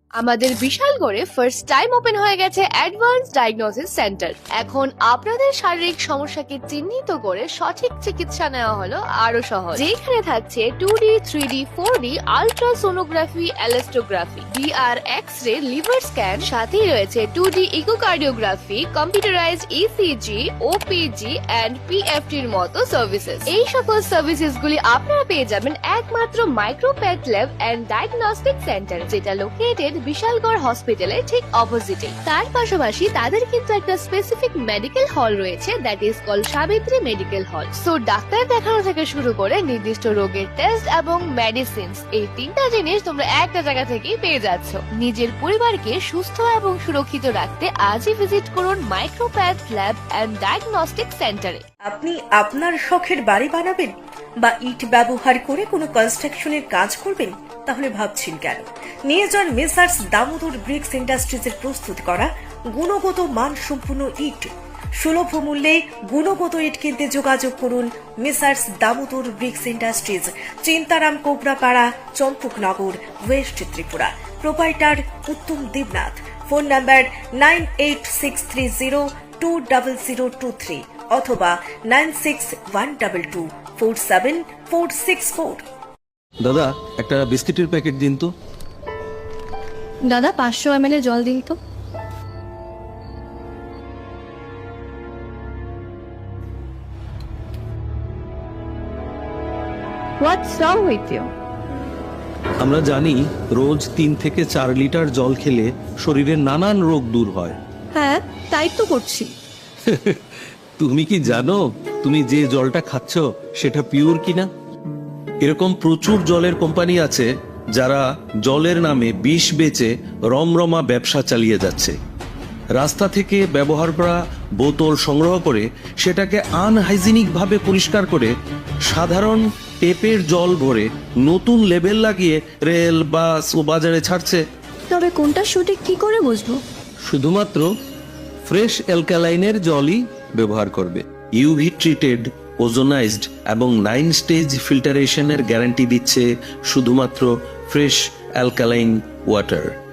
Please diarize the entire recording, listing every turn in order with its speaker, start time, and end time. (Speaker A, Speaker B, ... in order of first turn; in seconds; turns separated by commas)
Speaker A: 0.2-51.6, Speaker B: 51.9-85.6, Speaker C: 86.4-88.3, Speaker D: 90.1-91.6, Speaker D: 100.2-101.3, Speaker C: 102.6-107.6, Speaker D: 107.9-109.3, Speaker C: 109.9-110.2, Speaker C: 110.8-114.5, Speaker C: 115.4-121.9, Speaker C: 122.8-128.3, Speaker C: 128.9-134.4, Speaker D: 134.9-136.6, Speaker C: 137.1-137.7, Speaker C: 138.5-149.7